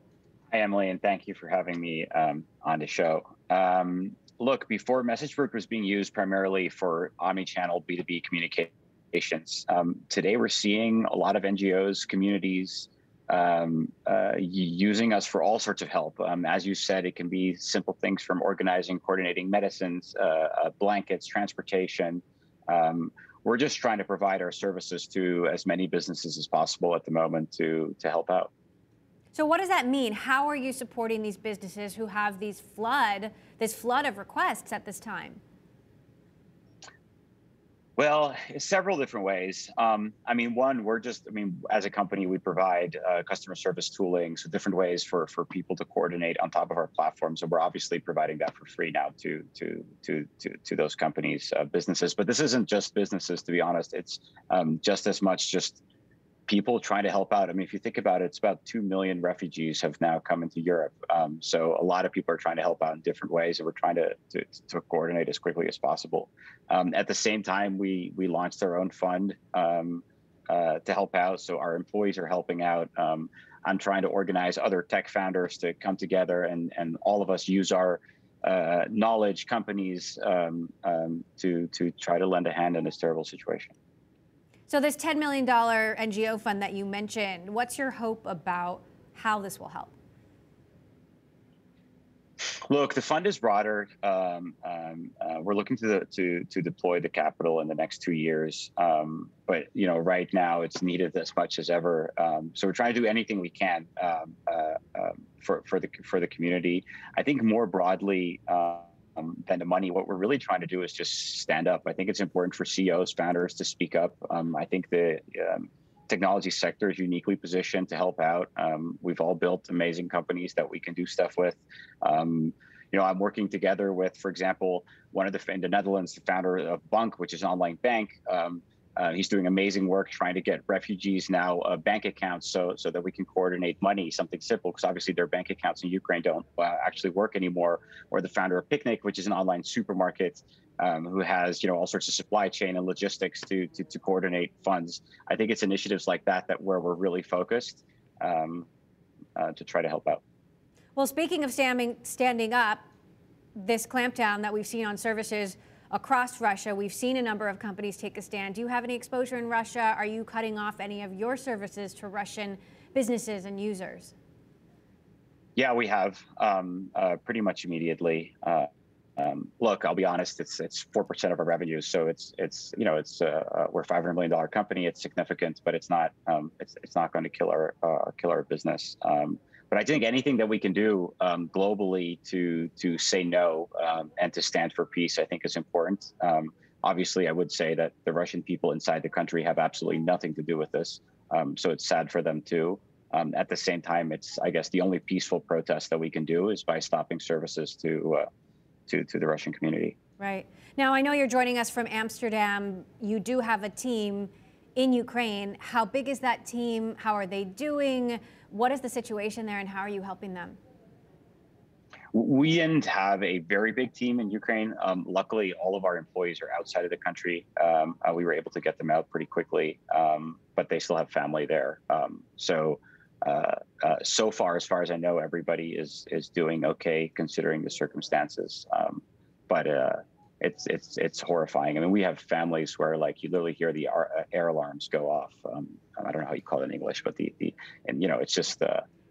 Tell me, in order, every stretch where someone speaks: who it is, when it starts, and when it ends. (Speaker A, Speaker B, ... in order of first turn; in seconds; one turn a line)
Speaker A: 0.5-28.5
Speaker B: 29.3-35.4
Speaker A: 38.0-55.8
Speaker A: 56.5-83.7
Speaker B: 84.7-89.9
Speaker A: 92.7-148.7
Speaker A: 149.3-150.2
Speaker B: 150.9-152.8
Speaker B: 153.6-164.1
Speaker A: 165.6-198.2
Speaker A: 198.9-199.9
Speaker B: 200.2-210.6
Speaker A: 212.1-238.8